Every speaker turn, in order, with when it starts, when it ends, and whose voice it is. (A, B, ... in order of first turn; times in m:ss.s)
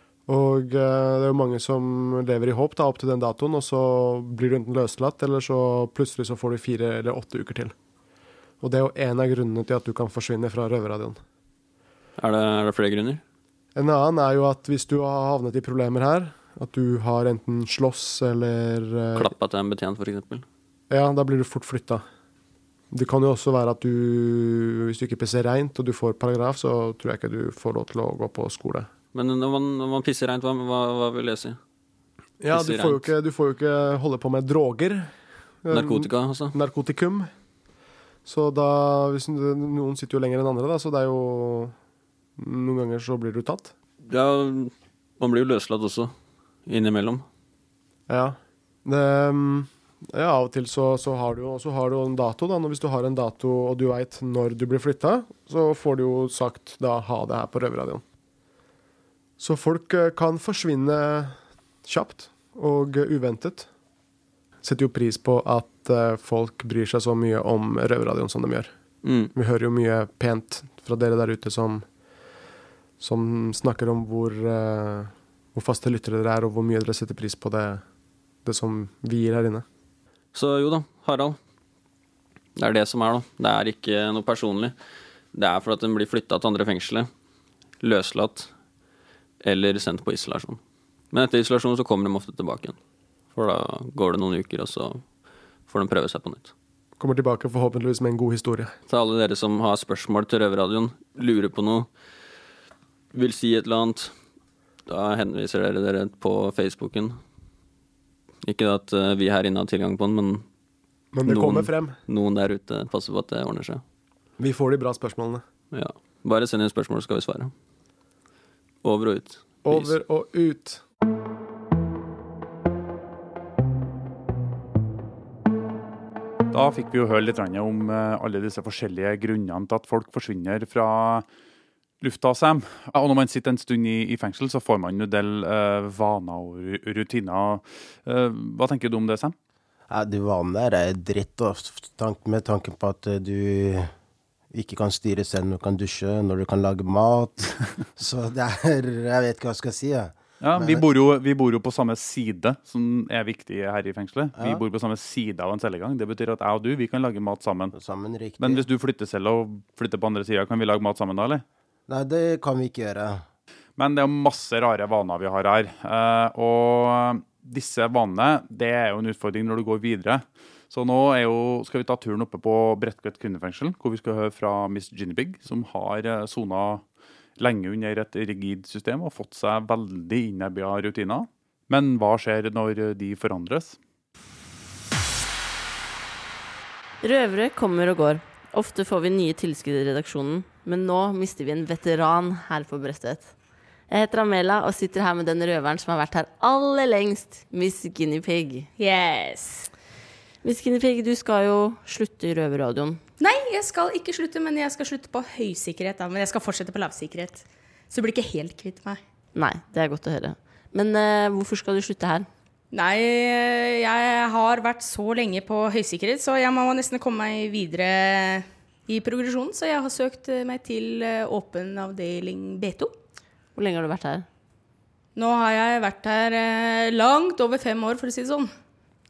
0:00.3-0:07.8 A
0:08.6-0:11.2 A
0:12.2-0:13.2 B
0:13.8-0:19.3 A
0:19.2-0:20.5 B
0:20.9-0:22.1 A
0:22.9-0:28.9 A
0:29.1-0:31.6 B
0:32.4-0:37.4 A
0:32.5-0:33.1 B
0:35.7-0:36.6 B
0:38.2-0:41.8 A
0:42.4-0:43.7 A
0:44.0-0:46.1 B
0:46.7-0:47.3 B
0:48.1-0:58.0 A
0:59.4-1:03.7 A
1:04.6-1:11.9 A
1:09.0-1:09.3 B
1:13.0-1:17.9 A
1:18.4-1:19.6 A
1:20.3-1:21.4 B
1:22.6-1:24.8 B
1:25.3-1:27.1 B
1:27.8-1:28.5 B
1:29.4-1:30.6 B
1:31.1-1:32.8 B
1:33.3-1:35.1 B
1:35.6-1:36.5 B
1:37.0-1:38.7 A
1:38.9-1:41.9 B
1:43.1-1:44.2 B
1:44.9-1:47.2 B
1:48.4-1:50.5 B
1:51.1-1:52.0 A
1:51.2-1:53.8 B
1:54.4-1:55.4 A
1:55.7-1:57.5 B
1:58.8-2:00.0 B
1:59.6-2:00.8 A
2:06.5-2:11.3 C
2:12.0-2:19.4 C
2:19.9-2:23.9 D
2:24.5-2:30.8 D
2:30.4-2:37.7 C
2:34.4-2:34.6 D
2:37.7-2:38.7 D
2:38.4-2:41.4 C
2:41.9-2:43.2 D
2:43.8-2:56.8 C
2:57.4-3:03.8 C
3:07.0-3:13.3 E
3:13.9-3:18.7 E
3:18.8-3:19.7 F
3:20.4-3:23.0 E
3:23.2-3:29.0 F
3:29.3-3:32.3 E
3:32.7-3:42.9 F
3:43.6-3:44.2 E
3:45.2-3:48.5 F